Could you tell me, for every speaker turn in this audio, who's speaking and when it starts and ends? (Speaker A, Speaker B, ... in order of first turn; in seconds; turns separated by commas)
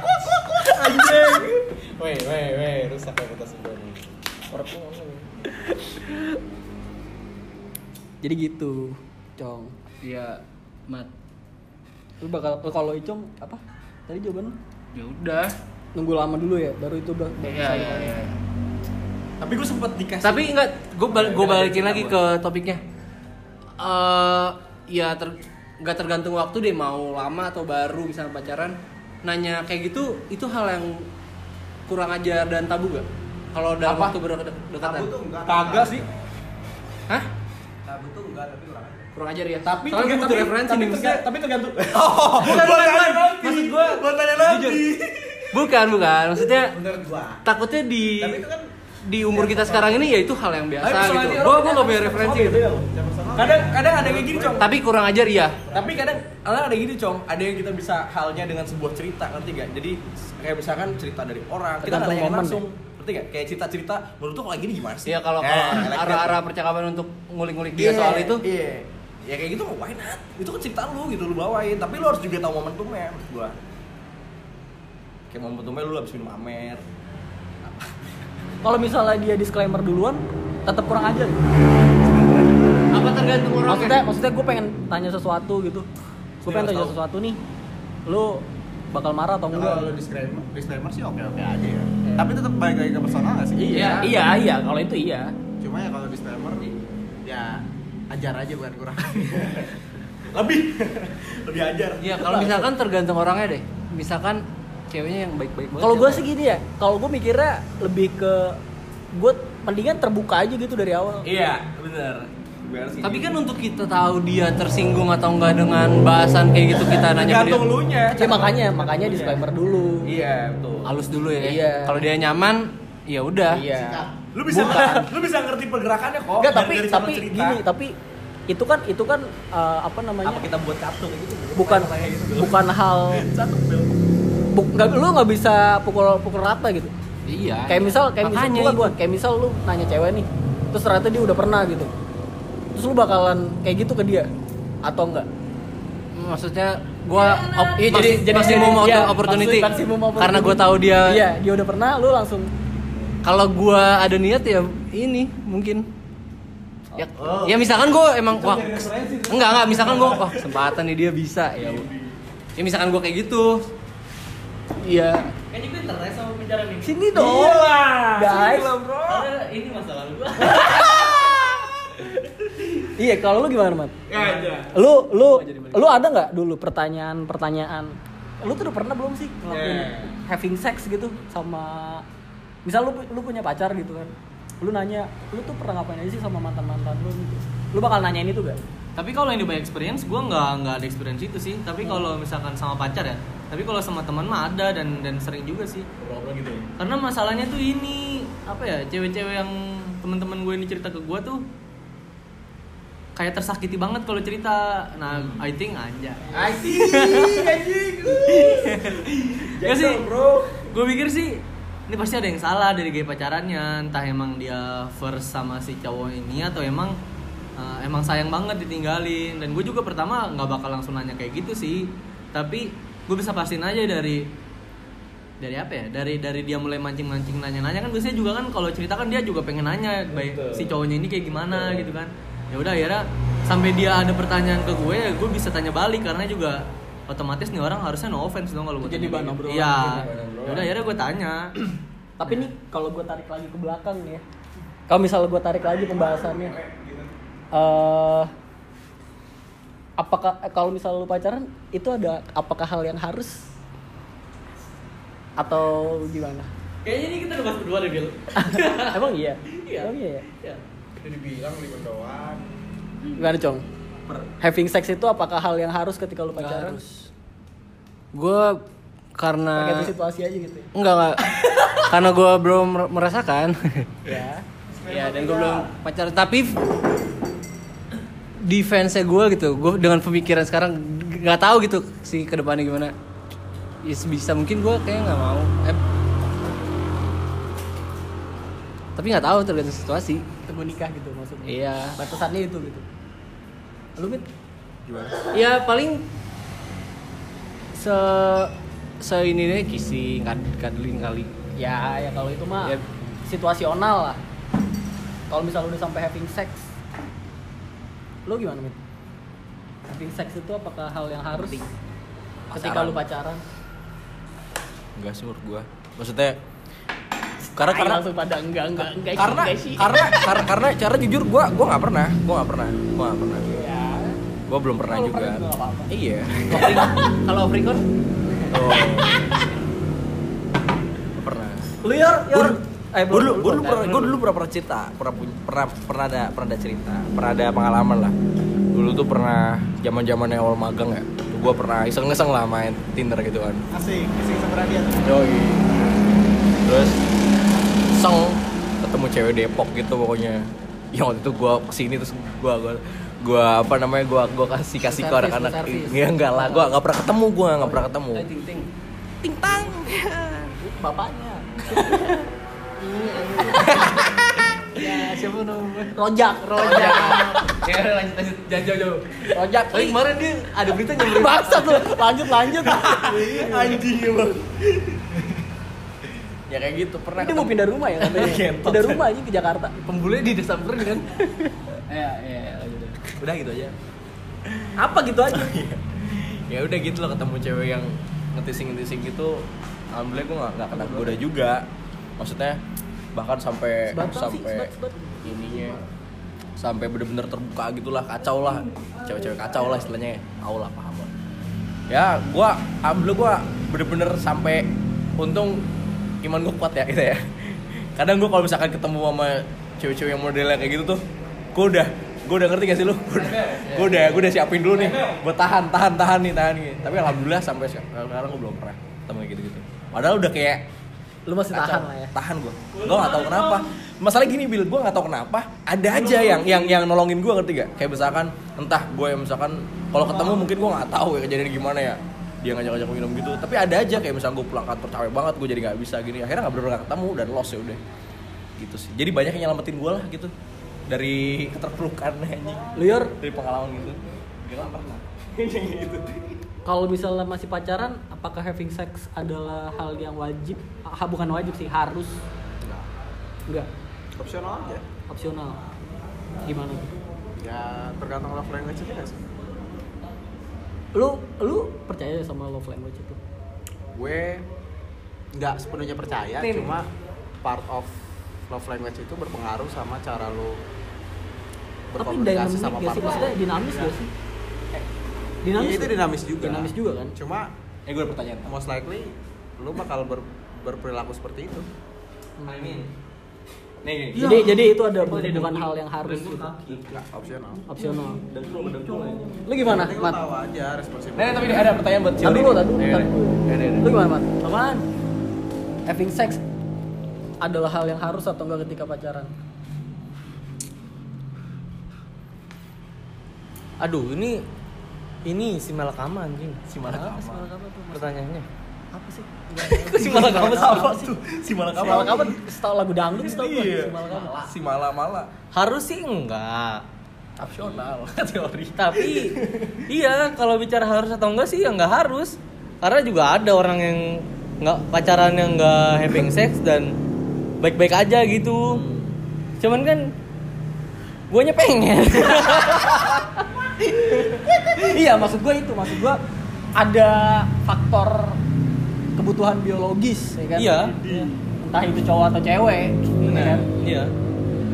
Speaker A: 0.6-4.0, Speaker B: 0.6-1.6, Speaker B: 4.5-5.3, Speaker C: 5.5-6.3, Speaker C: 8.2-9.7, Speaker D: 10.0-11.1, Speaker C: 12.2-14.6, Speaker D: 14.9-15.6, Speaker C: 15.9-18.2, Speaker D: 17.5-18.4, Speaker B: 19.4-20.5, Speaker D: 20.2-22.8, Speaker B: 21.1-22.2, Speaker D: 23.8-31.1, Speaker D: 31.9-35.1, Speaker B: 33.8-34.2, Speaker A: 34.8-36.0, Speaker B: 35.5-36.0, Speaker A: 37.9-39.1, Speaker D: 39.1-41.2, Speaker B: 39.6-45.7, Speaker D: 42.4-44.9, Speaker D: 45.5-46.8, Speaker A: 46.7-47.4, Speaker D: 47.4-48.5, Speaker A: 48.2-48.7, Speaker D: 49.1-52.7, Speaker A: 49.2-50.1, Speaker B: 50.8-54.7, Speaker A: 52.9-54.7, Speaker D: 54.6-55.6, Speaker A: 55.7-56.1, Speaker B: 55.7-66.4, Speaker C: 61.8-62.6, Speaker D: 65.1-68.4, Speaker B: 67.7-73.5, Speaker B: 75.3-76.8, Speaker C: 78.6-81.4, Speaker D: 82.9-84.0, Speaker C: 83.7-85.9, Speaker C: 86.4-87.4, Speaker B: 86.5-87.0, Speaker C: 88.1-89.9, Speaker A: 89.5-94.1, Speaker B: 93.6-94.2, Speaker C: 93.7-95.3, Speaker A: 95.6-96.7, Speaker A: 97.3-99.7, Speaker B: 99.2-99.7, Speaker B: 100.3-102.7, Speaker D: 102.0-106.2, Speaker C: 105.8-108.6, Speaker C: 109.1-111.3, Speaker B: 111.2-113.5, Speaker D: 113.0-117.7, Speaker B: 117.0-119.5, Speaker C: 118.2-120.1, Speaker B: 120.0-121.0, Speaker D: 120.8-123.6, Speaker C: 121.4-122.1, Speaker C: 123.5-124.1, Speaker A: 123.7-124.1, Speaker B: 124.3-127.6, Speaker D: 124.5-125.0, Speaker C: 124.7-125.0, Speaker C: 126.4-127.9, Speaker C: 128.5-130.5, Speaker B: 130.2-133.9, Speaker C: 131.6-133.2, Speaker C: 134.5-136.9, Speaker D: 137.3-138.9, Speaker C: 137.7-141.9, Speaker C: 142.7-144.3, Speaker C: 144.8-145.3, Speaker D: 146.2-151.2, Speaker E: 147.1-149.0, Speaker C: 147.6-152.5, Speaker D: 153.2-155.8, Speaker D: 157.0-161.9, Speaker B: 157.2-157.7, Speaker B: 158.3-160.6, Speaker B: 161.6-162.1, Speaker D: 162.6-163.6, Speaker C: 164.8-165.3, Speaker E: 165.5-167.1, Speaker C: 166.8-168.7, Speaker B: 167.1-169.3, Speaker E: 169.1-171.2, Speaker C: 170.5-171.4, Speaker C: 173.0-174.0, Speaker B: 174.1-174.8, Speaker C: 174.7-182.1, Speaker B: 179.5-180.1, Speaker C: 182.7-188.6, Speaker E: 189.0-195.9, Speaker B: 196.0-196.7, Speaker E: 196.8-201.4, Speaker E: 203.2-207.5, Speaker B: 205.1-205.4, Speaker B: 206.3-210.7, Speaker E: 208.3-209.0, Speaker E: 209.5-210.1, Speaker E: 210.7-211.4, Speaker E: 211.9-217.0, Speaker E: 217.6-224.2, Speaker E: 225.4-241.8, Speaker B: 230.1-230.7, Speaker B: 231.5-231.9, Speaker C: 238.8-240.1, Speaker B: 239.5-240.7, Speaker C: 242.2-244.2, Speaker C: 244.9-246.6, Speaker A: 245.6-247.1, Speaker C: 247.5-248.3, Speaker C: 250.0-253.5, Speaker C: 255.4-256.5, Speaker E: 256.8-260.6, Speaker C: 258.4-260.3, Speaker A: 261.0-262.5, Speaker C: 263.1-263.6, Speaker C: 264.4-266.8, Speaker D: 266.4-267.1, Speaker D: 268.1-268.6, Speaker D: 269.2-269.9, Speaker C: 269.5-270.7, Speaker D: 270.8-274.0, Speaker C: 274.1-274.4, Speaker A: 274.7-275.7, Speaker D: 274.9-276.6, Speaker D: 278.4-282.9, Speaker D: 283.8-285.8, Speaker D: 289.0-290.2, Speaker C: 290.5-292.9, Speaker D: 291.5-291.9, Speaker C: 294.0-294.3, Speaker D: 295.3-296.0, Speaker D: 297.8-301.3, Speaker C: 301.6-304.2, Speaker C: 305.3-306.7, Speaker C: 308.3-308.8, Speaker C: 309.9-311.6, Speaker B: 311.3-311.7, Speaker B: 312.5-313.0, Speaker C: 312.5-313.4, Speaker B: 315.0-316.4, Speaker C: 317.4-320.3, Speaker B: 317.6-318.0, Speaker B: 319.0-323.4, Speaker C: 323.5-324.2, Speaker B: 324.5-326.9, Speaker C: 324.8-325.9, Speaker D: 326.5-327.9, Speaker B: 328.5-329.2, Speaker C: 328.7-329.4, Speaker B: 331.1-331.7, Speaker C: 331.8-334.2, Speaker B: 332.3-332.6, Speaker B: 333.1-338.1, Speaker B: 338.7-343.6, Speaker A: 343.7-345.2, Speaker B: 345.0-345.8, Speaker B: 346.6-347.0, Speaker B: 347.9-358.2, Speaker C: 354.8-356.8, Speaker D: 358.1-358.7, Speaker B: 359.2-360.6, Speaker C: 360.6-362.3, Speaker D: 362.8-364.1, Speaker C: 363.4-364.0, Speaker B: 363.8-364.6, Speaker D: 364.8-366.0, Speaker C: 365.9-367.5, Speaker D: 366.5-371.9, Speaker C: 369.3-370.0, Speaker C: 371.0-373.7, Speaker B: 372.6-375.2, Speaker D: 373.1-373.8, Speaker B: 376.5-379.1, Speaker C: 377.2-379.8, Speaker D: 379.9-381.1, Speaker C: 381.2-381.6, Speaker D: 381.9-383.0, Speaker B: 383.2-383.8, Speaker B: 384.5-384.7, Speaker C: 384.8-385.6, Speaker B: 385.3-391.6, Speaker D: 390.8-391.1, Speaker B: 392.2-392.6, Speaker B: 393.1-394.7, Speaker C: 393.9-395.8, Speaker B: 395.2-395.8, Speaker B: 396.6-401.1, Speaker B: 401.9-405.6, Speaker B: 406.2-411.0, Speaker B: 411.5-420.6, Speaker D: 413.8-414.2, Speaker E: 414.8-415.2, Speaker C: 421.3-422.1, Speaker B: 421.5-437.8, Speaker E: 422.7-423.7, Speaker E: 426.0-426.6, Speaker B: 438.6-440.3, Speaker B: 440.9-446.4, Speaker C: 442.8-443.1, Speaker C: 446.6-452.2, Speaker A: 454.2-454.8, Speaker C: 455.1-455.6, Speaker C: 456.4-456.9, Speaker A: 457.4-459.2, Speaker C: 460.9-463.2, Speaker A: 464.0-464.4, Speaker A: 465.3-466.9, Speaker A: 467.4-467.9, Speaker A: 468.5-470.6, Speaker A: 471.9-473.9, Speaker C: 472.0-474.1, Speaker C: 475.4-477.1, Speaker A: 475.6-477.5, Speaker B: 477.9-478.5, Speaker A: 478.5-481.7, Speaker C: 482.4-482.9, Speaker E: 482.5-482.9, Speaker B: 483.8-484.8, Speaker C: 484.2-486.5, Speaker E: 484.2-486.9, Speaker A: 486.9-487.7, Speaker C: 487.7-488.2, Speaker B: 487.8-489.4, Speaker C: 489.4-490.2, Speaker A: 489.6-491.8, Speaker B: 491.1-493.9, Speaker C: 492.2-494.8, Speaker C: 495.9-496.4, Speaker C: 497.4-499.3, Speaker E: 503.8-504.4, Speaker E: 505.3-506.6, Speaker B: 506.7-507.5, Speaker C: 506.9-508.2, Speaker E: 507.9-508.5, Speaker C: 508.9-511.2, Speaker E: 509.7-510.9, Speaker B: 509.9-512.4, Speaker C: 511.7-514.5, Speaker B: 513.2-515.3, Speaker E: 515.5-516.8, Speaker B: 517.4-519.9, Speaker E: 518.8-519.4, Speaker E: 519.9-526.9, Speaker E: 527.6-528.8, Speaker B: 528.6-529.1, Speaker E: 529.6-530.0, Speaker E: 531.3-533.2, Speaker C: 533.9-536.2, Speaker C: 536.8-538.4, Speaker C: 539.2-543.7, Speaker E: 540.6-541.0, Speaker E: 543.2-544.1